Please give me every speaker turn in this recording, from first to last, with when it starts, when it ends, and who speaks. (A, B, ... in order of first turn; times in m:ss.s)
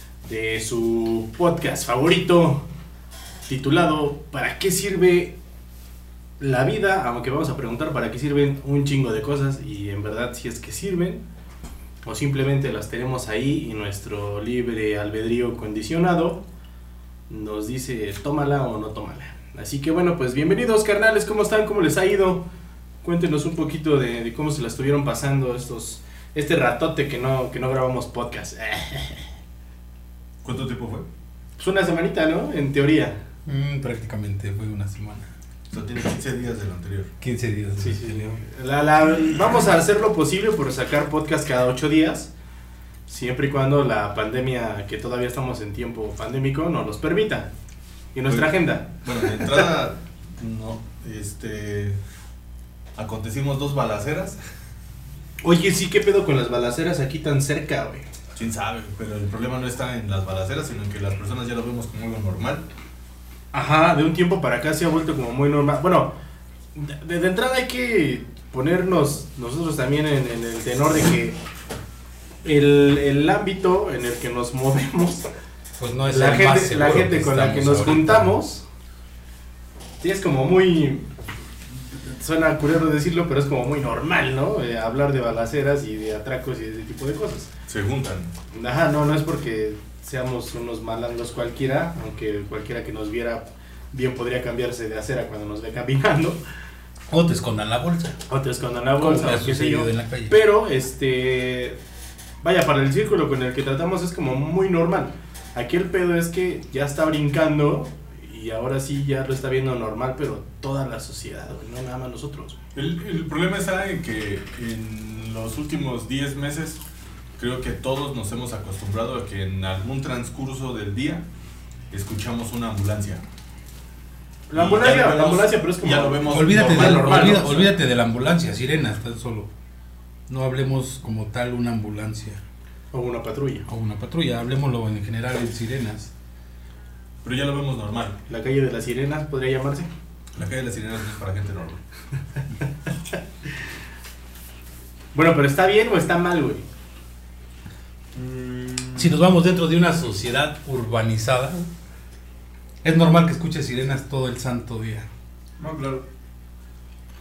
0:00.2-0:02.6 A
0:03.4-0:05.4 A
0:06.4-0:11.2 A
0:12.0-0:16.4 A
0:17.3-0:22.4 A
0:23.0-0:29.3 A
0:30.4-0:31.0 B
0:31.6-0:33.2 A
0:33.4-0:35.3 C
0:35.7-0:37.1 B
0:37.2-0:38.4 C
0:37.8-0:42.3 A
0:43.1-0:47.5 A
0:48.1-0:49.6 A
0:48.3-0:52.0 B
0:53.0-0:54.4 B
0:55.4-0:58.0 A
0:58.3-1:02.6 B
1:03.5-1:06.1 A
1:06.7-1:11.4 A
1:12.4-1:15.3 A
1:15.8-1:18.3 C
1:16.1-1:18.6 A
1:20.0-1:21.1 A
1:21.8-1:27.5 A
1:27.7-1:28.3 B
1:28.5-1:36.4 A
1:37.1-1:38.2 C
1:38.3-1:41.8 A
1:39.0-1:40.4 C
1:42.4-1:52.6 A
1:52.7-1:56.8 B
1:57.4-2:01.2 B
2:01.9-2:03.2 B
2:04.5-2:07.7 A
2:04.5-2:07.6 B
2:06.3-2:09.5 C
2:10.3-2:12.4 C
2:12.9-2:13.6 A
2:13.7-2:16.1 C
2:17.2-2:18.2 B
2:18.3-2:19.9 A
2:20.3-2:21.8 B
2:25.1-2:26.6 A
2:28.1-2:29.2 B
2:29.0-2:31.7 C
2:32.8-2:35.0 C
2:35.6-2:36.0 B